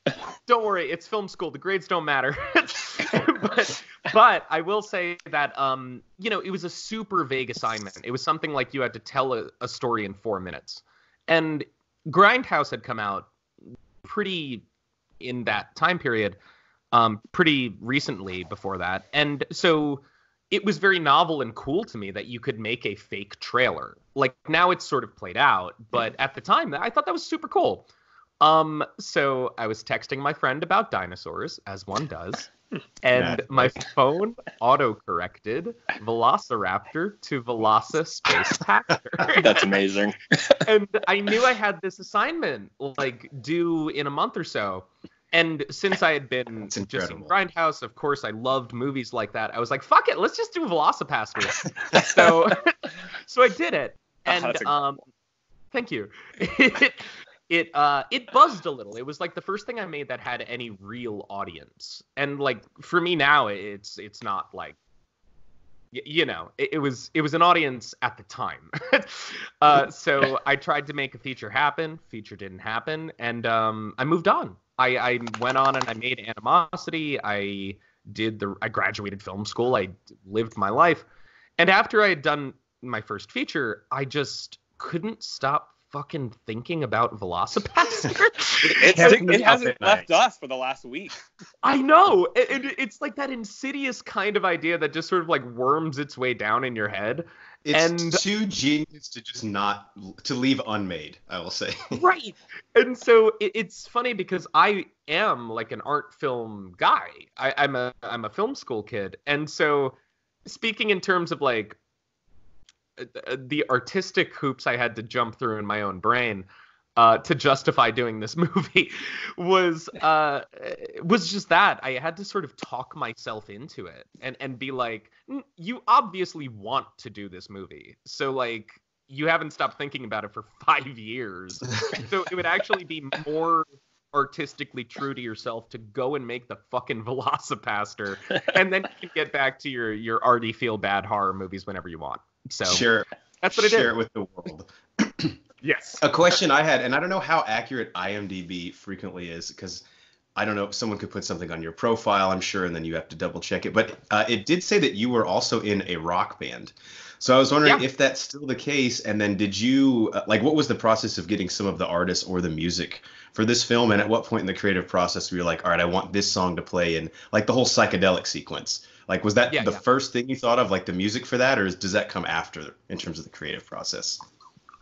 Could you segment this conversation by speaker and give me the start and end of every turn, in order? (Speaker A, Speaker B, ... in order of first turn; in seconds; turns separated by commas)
Speaker A: 0.5-13.3, Speaker A: 14.0-14.7, Speaker A: 15.2-16.4, Speaker A: 16.9-27.9, Speaker A: 28.4-32.5, Speaker A: 33.0-39.6, Speaker B: 33.1-33.7, Speaker C: 39.4-40.6, Speaker A: 40.6-55.1, Speaker B: 46.7-47.3, Speaker C: 54.3-54.8, Speaker A: 55.7-64.8, Speaker A: 65.9-81.1, Speaker A: 81.6-89.2, Speaker C: 88.6-91.2, Speaker B: 88.7-90.1, Speaker A: 91.6-98.2, Speaker B: 97.7-102.0, Speaker A: 102.0-111.8, Speaker A: 113.0-142.9, Speaker B: 142.7-145.4, Speaker A: 143.4-143.9, Speaker A: 145.6-146.1, Speaker B: 146.0-149.8, Speaker B: 150.4-174.2, Speaker A: 169.5-169.8